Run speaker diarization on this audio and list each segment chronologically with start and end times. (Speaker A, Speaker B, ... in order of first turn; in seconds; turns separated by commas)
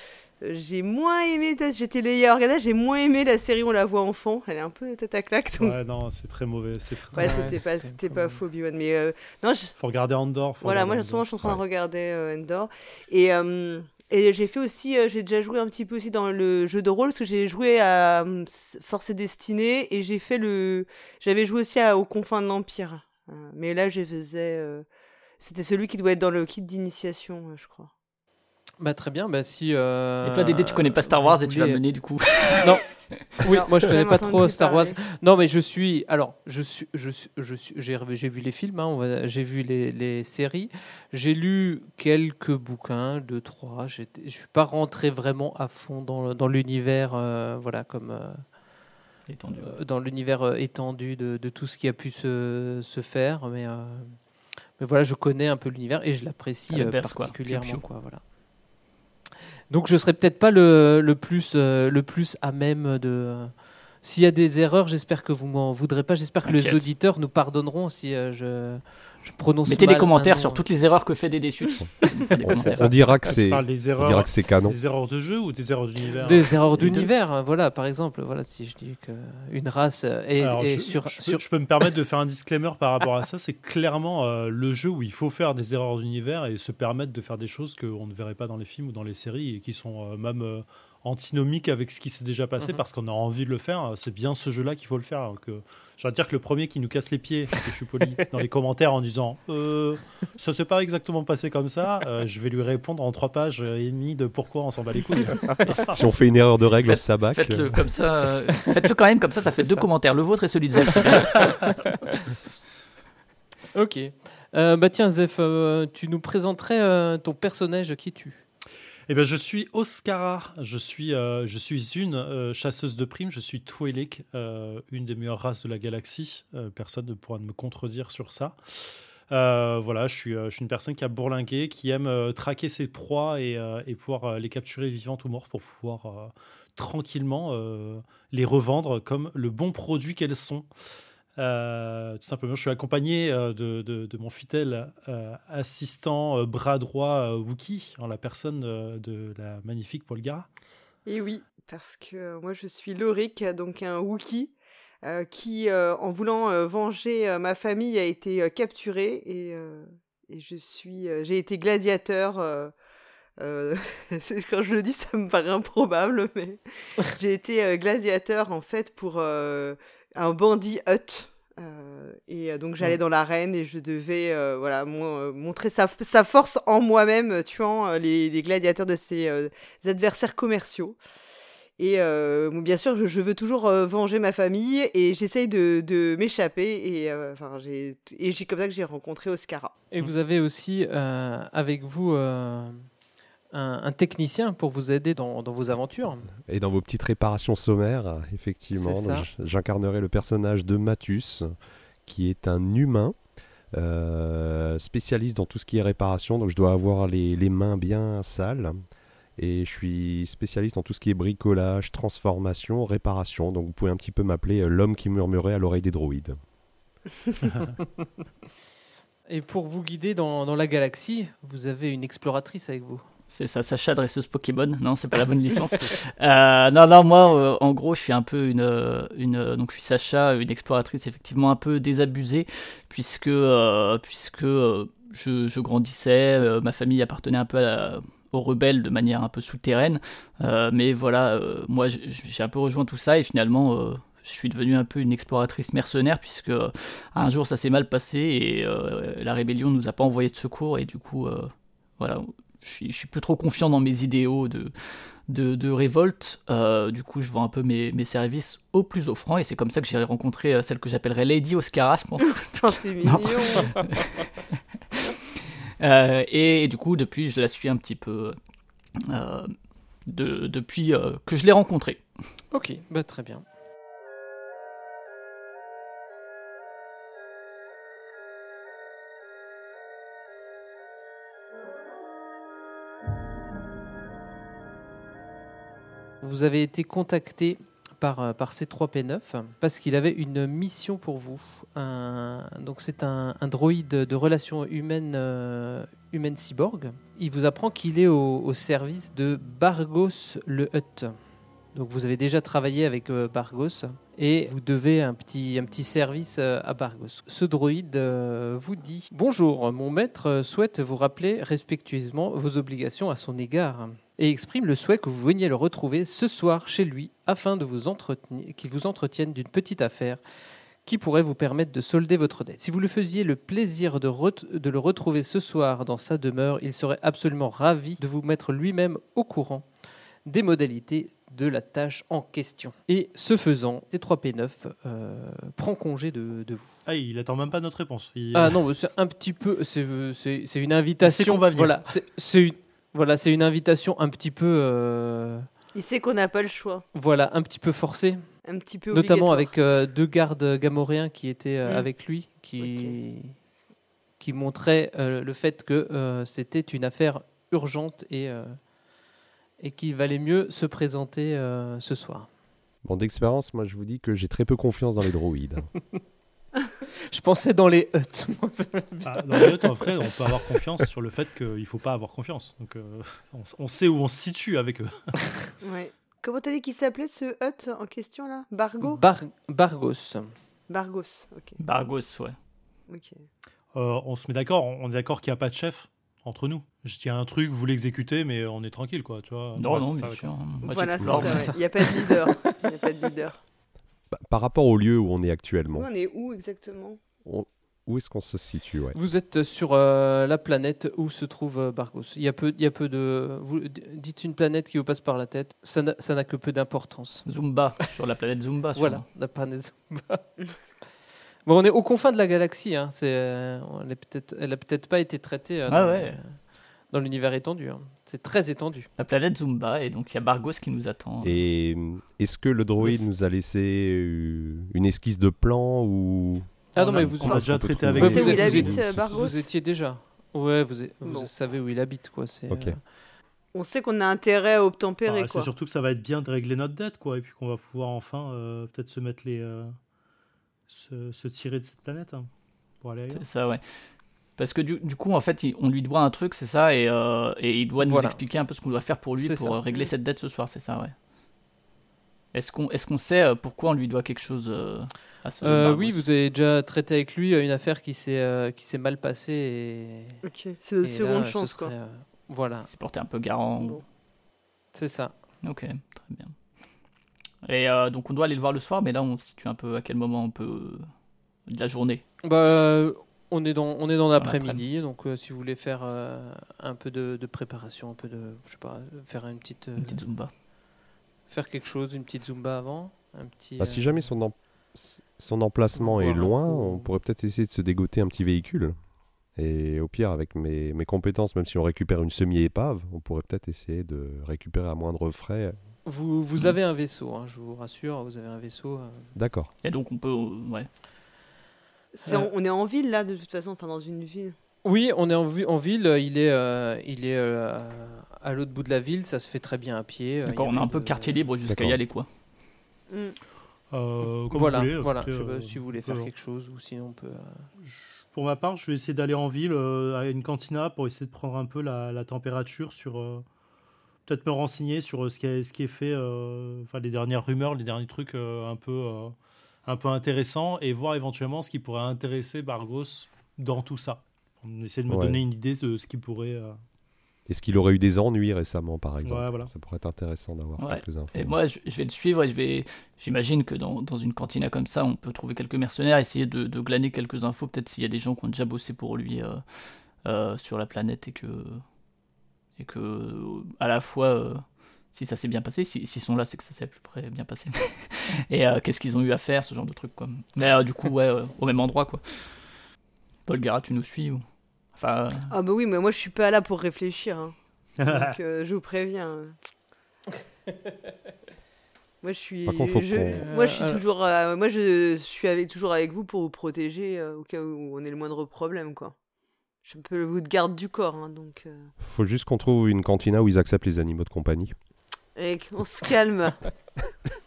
Speaker A: 0.4-5.8, Speaker B: 5.6-7.6, Speaker C: 7.1-8.4, Speaker A: 7.2-9.8, Speaker B: 9.8-11.3, Speaker A: 10.6-24.8, Speaker A: 25.4-27.9, Speaker C: 28.8-31.8, Speaker D: 30.2-33.2, Speaker C: 33.4-48.4, Speaker A: 33.4-35.0, Speaker D: 49.3-49.8, Speaker C: 49.5-54.2, Speaker C: 54.8-58.2, Speaker D: 56.7-57.8, Speaker C: 59.7-70.6, Speaker D: 66.4-66.9, Speaker D: 69.7-72.9, Speaker C: 72.2-72.8, Speaker E: 72.4-74.8, Speaker B: 73.1-77.1, Speaker C: 76.2-81.4, Speaker B: 80.4-106.0, Speaker E: 105.9-107.8, Speaker D: 106.8-111.6, Speaker C: 109.5-109.9, Speaker C: 111.9-112.2, Speaker C: 113.7-118.4, Speaker B: 119.1-140.7, Speaker B: 141.4-150.4, Speaker A: 151.1-162.7, Speaker A: 163.4-181.0, Speaker A: 181.8-189.7, Speaker C: 189.9-192.9, Speaker C: 193.5-196.3, Speaker E: 196.3-201.5, Speaker C: 198.7-199.2, Speaker E: 202.1-203.2, Speaker E: 203.7-208.8, Speaker E: 209.4-216.4, Speaker C: 219.3-223.0, Speaker D: 223.3-265.2, Speaker A: 262.4-263.8, Speaker D: 265.8-268.4, Speaker D: 269.0-269.5, Speaker D: 270.1-272.0, Speaker C: 272.5-273.4, Speaker C: 286.2-301.2, Speaker C: 301.7-320.2, Speaker C: 320.8-329.7, Speaker C: 330.2-336.7, Speaker B: 336.9-338.6, Speaker C: 338.3-345.5, Speaker B: 341.0-341.9, Speaker A: 345.7-346.8, Speaker C: 346.9-348.2, Speaker A: 348.5-349.5, Speaker C: 348.9-353.4, Speaker A: 352.6-352.9, Speaker C: 354.2-358.6, Speaker C: 359.6-362.3, Speaker E: 362.8-365.7, Speaker C: 367.1-370.6, Speaker B: 369.1-375.3, Speaker A: 375.6-379.0, Speaker C: 378.8-380.3, Speaker A: 380.7-381.6, Speaker D: 381.6-382.4, Speaker A: 382.9-383.2, Speaker B: 383.7-390.3, Speaker D: 389.6-391.6, Speaker A: 390.6-393.4, Speaker E: 391.0-391.4, Speaker C: 392.1-392.6, Speaker E: 394.1-395.9, Speaker A: 395.7-397.0, Speaker E: 397.2-399.0, Speaker C: 398.9-407.2, Speaker D: 407.2-409.0, Speaker C: 408.8-410.3, Speaker C: 411.4-416.4, Speaker D: 415.7-416.2, Speaker C: 416.9-418.9, Speaker D: 419.0-421.4, Speaker E: 421.2-429.3, Speaker C: 426.7-432.8, Speaker B: 426.8-428.9, Speaker A: 428.0-429.4, Speaker E: 432.5-432.8, Speaker A: 433.5-435.5, Speaker B: 435.1-439.8, Speaker B: 440.7-442.3, Speaker B: 442.8-443.2, Speaker D: 443.1-443.6, Speaker D: 444.4-450.9, Speaker C: 447.8-448.2, Speaker C: 449.2-449.6, Speaker D: 452.3-456.0, Speaker C: 455.4-460.2, Speaker A: 460.2-461.7, Speaker C: 460.8-462.7, Speaker D: 462.7-463.8, Speaker C: 464.7-465.1, Speaker D: 465.4-466.3, Speaker D: 467.4-470.9, Speaker D: 471.5-472.0, Speaker C: 472.2-480.0, Speaker D: 474.2-474.6, Speaker D: 479.8-480.3, Speaker C: 481.3-484.1, Speaker E: 483.6-488.8, Speaker C: 485.8-486.9, Speaker E: 489.4-495.6, Speaker C: 495.8-499.1, Speaker E: 499.1-499.5, Speaker D: 499.6-500.7, Speaker A: 502.0-504.3, Speaker C: 504.6-511.2, Speaker D: 510.2-512.1, Speaker E: 511.5-511.8, Speaker A: 512.9-513.2, Speaker B: 513.7-516.1, Speaker C: 514.3-517.4, Speaker B: 517.6-523.2, Speaker B: 524.1-529.1, Speaker B: 529.6-536.6, Speaker E: 534.9-535.2, Speaker E: 537.3-541.4, Speaker B: 539.0-539.5, Speaker D: 540.6-549.4, Speaker D: 550.0-551.6, Speaker D: 552.6-562.4, Speaker D: 563.3-564.2, Speaker D: 564.7-565.3, Speaker A: 565.3-567.4, Speaker B: 567.8-568.2, Speaker A: 567.9-569.4, Speaker A: 572.0-578.9, Speaker E: 572.4-573.2, Speaker C: 573.1-573.8, Speaker A: 579.6-581.7, Speaker E: 581.8-584.5, Speaker A: 585.1-586.4